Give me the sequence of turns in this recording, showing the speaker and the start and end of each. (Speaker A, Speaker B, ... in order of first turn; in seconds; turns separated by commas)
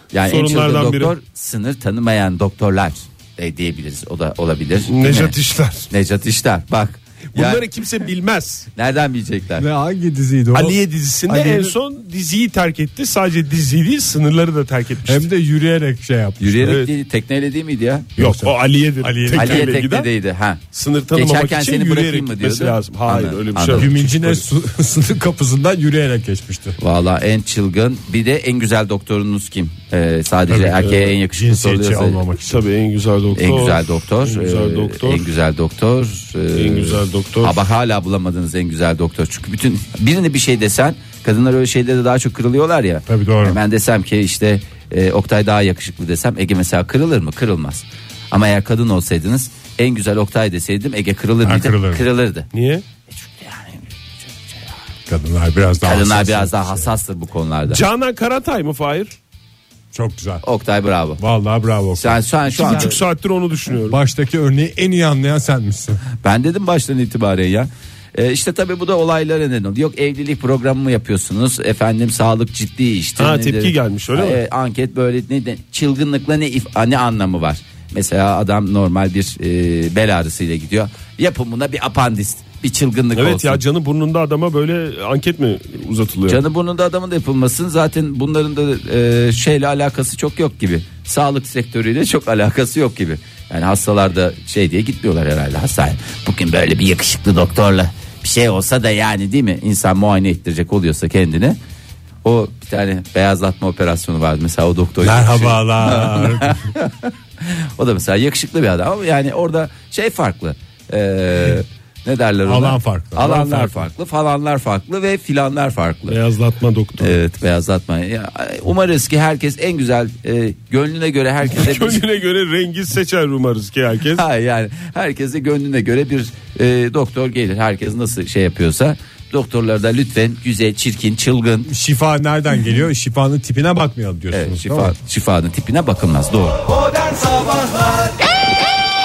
Speaker A: 0.1-5.3, Speaker B: 0.2-1.1, Speaker B: 4.9-5.9, Speaker A: 5.9-7.7, Speaker B: 7.3-8.7, Speaker A: 8.8-9.7, Speaker C: 9.6-11.7, Speaker B: 10.5-15.3, Speaker C: 15.1-16.8, Speaker A: 16.4-18.1, Speaker B: 16.6-16.9, Speaker C: 18.2-19.8, Speaker B: 18.2-20.1, Speaker A: 19.4-20.6, Speaker B: 20.7-24.4, Speaker A: 21.1-24.0, Speaker C: 23.7-26.8, Speaker A: 26.8-32.2, Speaker C: 30.5-32.6, Speaker B: 32.5-35.3, Speaker A: 33.4-52.5, Speaker B: 36.5-37.6, Speaker C: 43.1-43.6, Speaker C: 51.4-52.0, Speaker B: 52.5-52.8, Speaker A: 53.1-54.6, Speaker C: 55.1-56.9, Speaker A: 55.8-57.8, Speaker B: 57.7-59.1, Speaker C: 59.9-60.4, Speaker A: 60.4-61.2, Speaker C: 61.2-62.9, Speaker A: 62.0-63.0, Speaker B: 62.5-64.0, Speaker C: 63.9-66.0, Speaker A: 66.2-83.6, Speaker B: 73.2-74.4, Speaker B: 83.2-86.4, Speaker A: 86.3-101.6, Speaker A: 102.2-116.2, Speaker C: 105.0-106.7, Speaker C: 112.5-113.8, Speaker B: 116.1-117.2, Speaker A: 117.0-122.0, Speaker B: 121.5-124.2, Speaker A: 124.1-131.7, Speaker C: 131.7-134.9, Speaker A: 134.3-136.8